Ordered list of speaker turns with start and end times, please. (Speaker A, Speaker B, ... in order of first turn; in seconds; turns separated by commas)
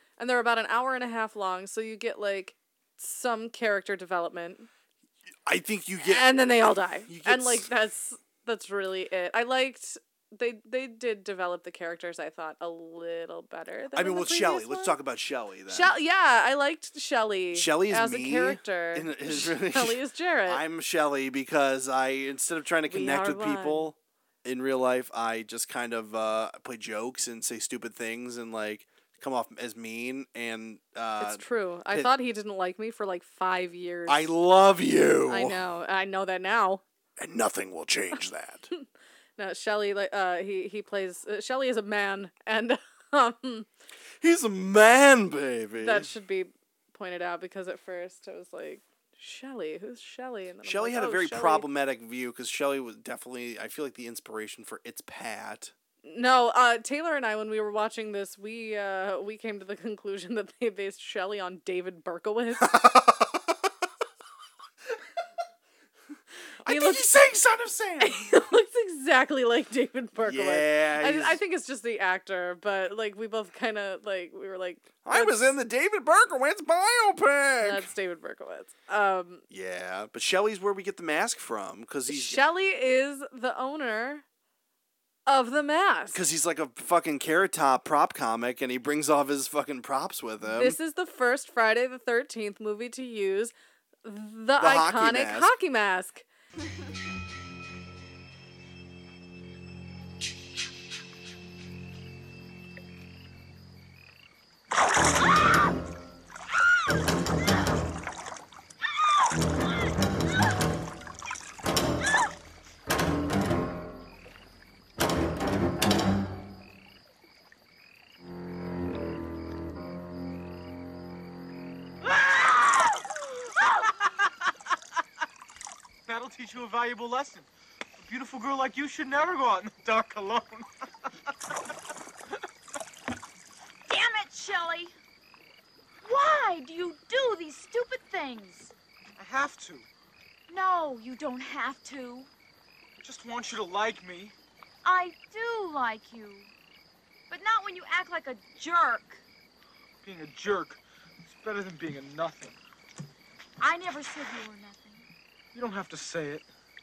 Speaker A: 0.2-4.7, Speaker B: 5.5-7.7, Speaker A: 6.0-14.9, Speaker B: 13.9-15.9, Speaker A: 15.7-20.6, Speaker B: 17.5-32.1, Speaker A: 22.9-23.9, Speaker A: 31.2-34.3, Speaker B: 34.1-35.6, Speaker A: 35.3-36.8, Speaker B: 37.2-38.7, Speaker A: 39.4-43.7, Speaker B: 44.2-46.1, Speaker A: 45.8-51.7, Speaker B: 50.6-55.7, Speaker A: 56.0-62.8, Speaker B: 62.6-63.5, Speaker A: 66.6-67.2, Speaker B: 66.6-68.4, Speaker A: 68.0-75.5, Speaker B: 70.2-71.4, Speaker B: 75.0-77.9, Speaker A: 77.6-79.4, Speaker B: 79.5-82.4, Speaker A: 82.1-84.2, Speaker A: 85.3-86.2, Speaker B: 86.1-90.8, Speaker A: 90.5-96.2, Speaker B: 94.5-95.5, Speaker C: 122.0-123.1, Speaker C: 126.1-127.5, Speaker C: 128.0-130.7, Speaker D: 133.9-134.9, Speaker D: 136.0-138.7, Speaker C: 139.2-139.9, Speaker D: 140.5-142.3, Speaker C: 143.0-144.3, Speaker D: 144.8-146.5, Speaker D: 147.3-149.2, Speaker C: 150.0-152.6, Speaker D: 153.6-155.1, Speaker C: 155.5-156.4